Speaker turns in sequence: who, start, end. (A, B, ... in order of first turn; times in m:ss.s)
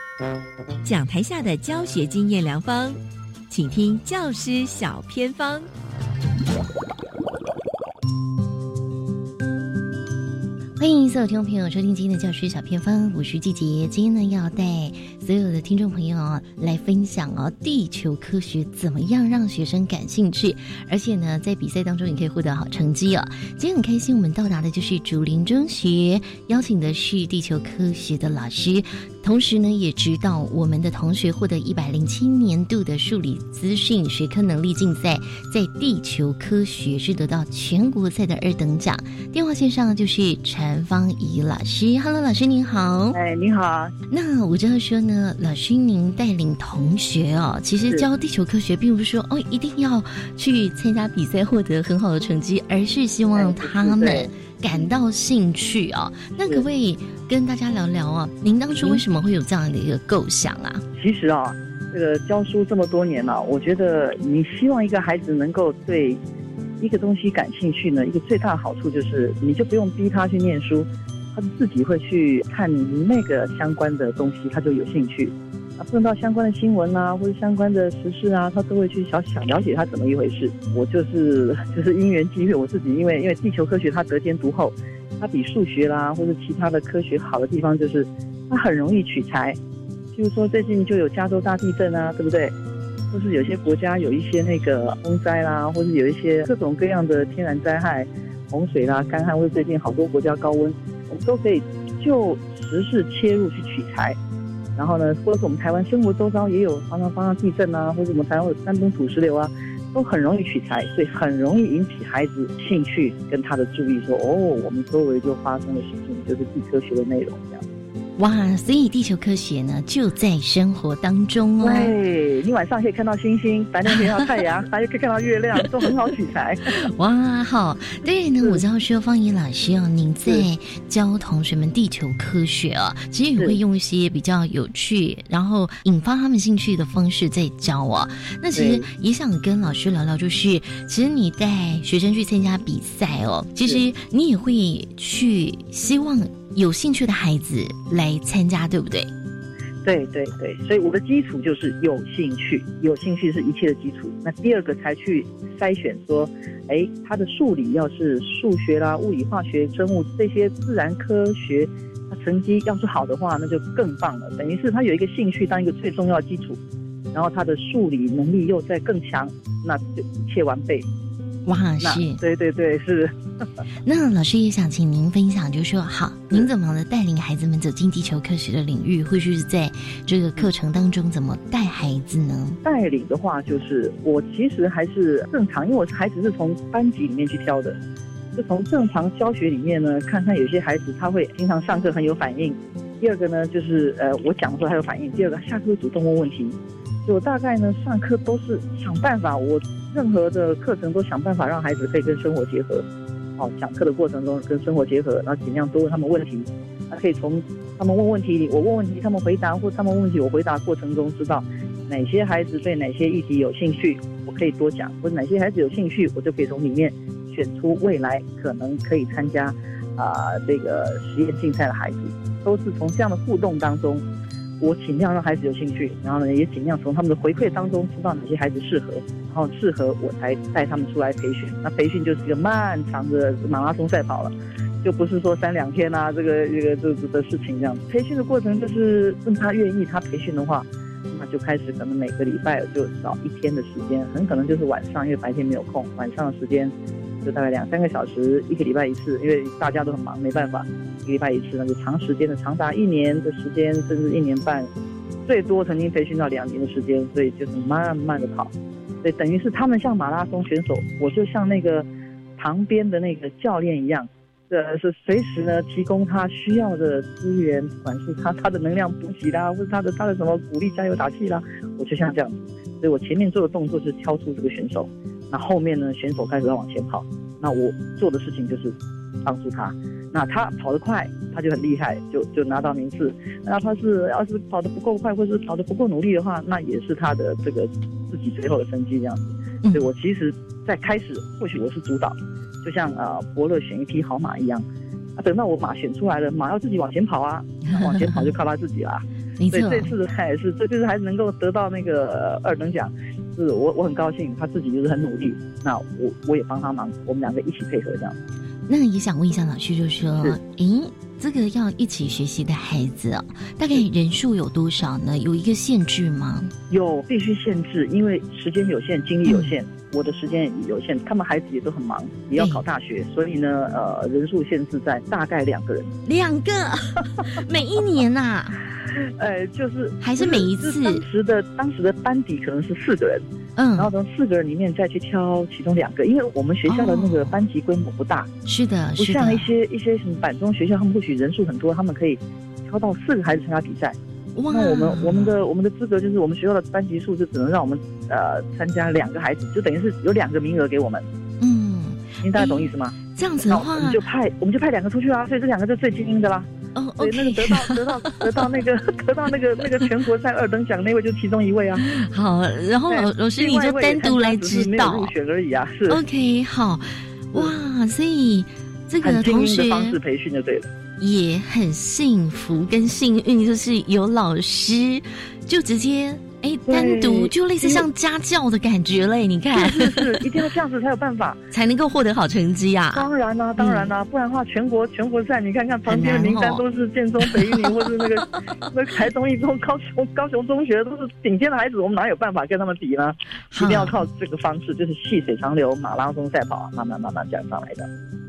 0:00.8-0:05.7 A
0:10.8-0:43.2 B
0:43.1-0:43.9 C
0:44.1-1:00.8 B
0:53.3-0:54.9 C
0:58.7-0:59.0 C
1:01.0-1:06.2 C
1:06.8-1:29.6 C
1:30.1-1:32.5 C
1:33.1-1:44.2 C
1:44.8-1:57.6 C
1:58.2-2:02.0 B
2:01.6-2:06.7 C
2:03.8-2:04.5 B
2:05.6-2:05.9 B
2:06.7-2:29.1 B
2:18.5-2:18.8 C
2:29.8-2:46.6 C
2:47.1-2:50.9 C
2:51.4-2:52.2 B
2:51.8-2:53.1 C
2:53.8-3:02.6 B
3:02.6-3:07.8 C
3:08.3-3:22.8 C
3:23.4-3:44.0 C
3:44.6-4:14.7 C
4:15.3-4:18.5 C
4:19.0-4:54.6 C
4:55.2-5:08.2 C
4:57.6-4:58.4 B
4:59.4-4:59.9 B
5:08.7-5:16.5 B
5:16.7-5:25.9 C
5:19.2-5:19.6 B
5:22.4-5:22.6 B
5:26.0-5:28.6 B
5:29.2-5:33.2 C
5:30.0-5:31.0 B
5:33.6-5:33.9 B
5:33.8-5:38.3 C
5:36.6-5:37.4 B
5:38.4-5:39.5 B
5:39.0-5:44.0 C
5:44.3-5:45.4 B
5:44.5-5:51.0 C
5:51.4-5:54.0 B
5:52.2-6:01.8 C
5:56.7-5:58.5 B
6:01.8-6:05.1 B
6:02.9-6:06.0 C
6:05.9-6:10.0 B
6:09.0-6:10.7 C
6:11.0-6:20.3 B
6:16.7-6:17.9 C
6:19.5-6:21.4 C
6:21.5-6:23.9 B
6:22.9-6:37.9 C
6:25.8-6:26.6 B
6:27.2-6:27.9 B
6:33.5-6:34.0 B